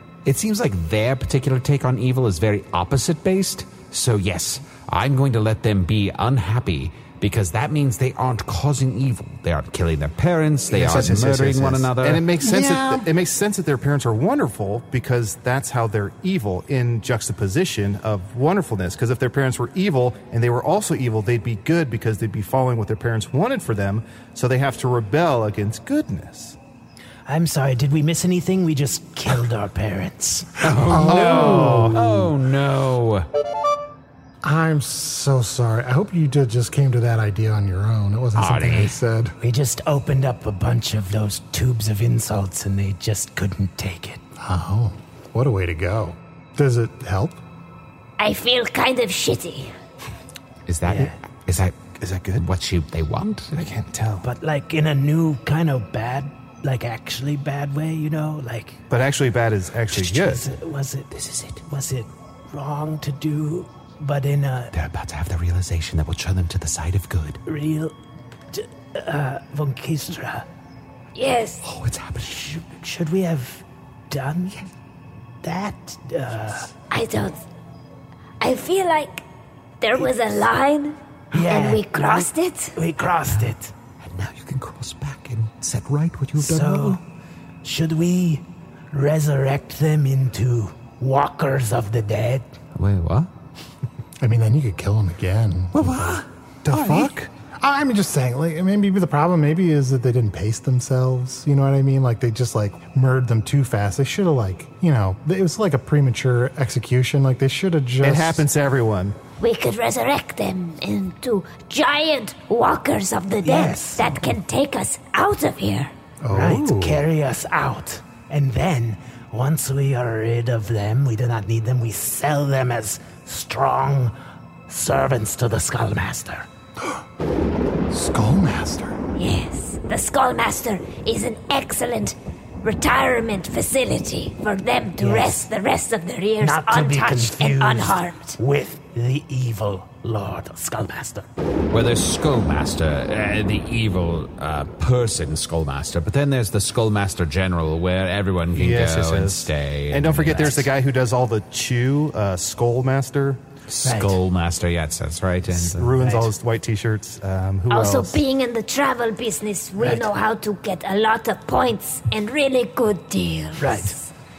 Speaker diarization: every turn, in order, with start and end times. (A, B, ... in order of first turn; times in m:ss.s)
0:00.2-0:12.2 A
0:10.7-0:26.6 B
0:12.4-0:13.1 C
0:27.3-0:30.6 D
0:30.6-0:33.3 A
0:30.8-0:32.3 C
0:31.0-0:32.0 B
0:34.4-0:39.4 C
0:38.4-0:39.0 A
0:39.4-0:44.2 D
0:44.4-0:47.4 C
0:48.2-0:49.7 E
0:50.7-0:53.7 A
0:50.9-0:51.2 D
0:52.0-0:52.4 B
0:53.6-0:54.3 B
0:54.2-0:58.8 D
0:58.9-1:00.5 B
0:59.9-1:04.7 D
1:04.7-1:07.4 A
1:07.4-1:08.0 D
1:08.5-1:10.5 D
1:11.2-1:11.6 E
1:11.6-1:12.5 A
1:12.3-1:14.7 D
1:15.4-1:16.7 D
1:16.9-1:17.4 E
1:18.4-1:19.2 E
1:19.8-1:22.7 E
1:21.3-1:23.7 D
1:24.0-1:27.0 A
1:26.4-1:27.0 D
1:27.6-1:32.5 D
1:32.8-1:33.3 A
1:34.2-1:48.5 C
1:35.7-1:37.1 A
1:48.0-1:49.2 B
1:49.4-1:55.9 E
1:53.4-1:54.3 D
1:56.2-1:57.0 C
1:56.3-2:04.2 D
2:04.7-2:06.5 D
2:07.9-2:09.0 C
2:09.2-2:18.4 E
2:15.0-2:15.4 D
2:16.4-2:21.3 D
2:21.7-2:30.7 A
2:28.5-2:33.4 B
2:33.7-2:36.0 A
2:33.8-2:34.2 D
2:35.5-2:38.2 B
2:36.0-2:36.3 D
2:37.7-2:44.1 E
2:39.8-2:40.1 D
2:43.6-2:44.0 D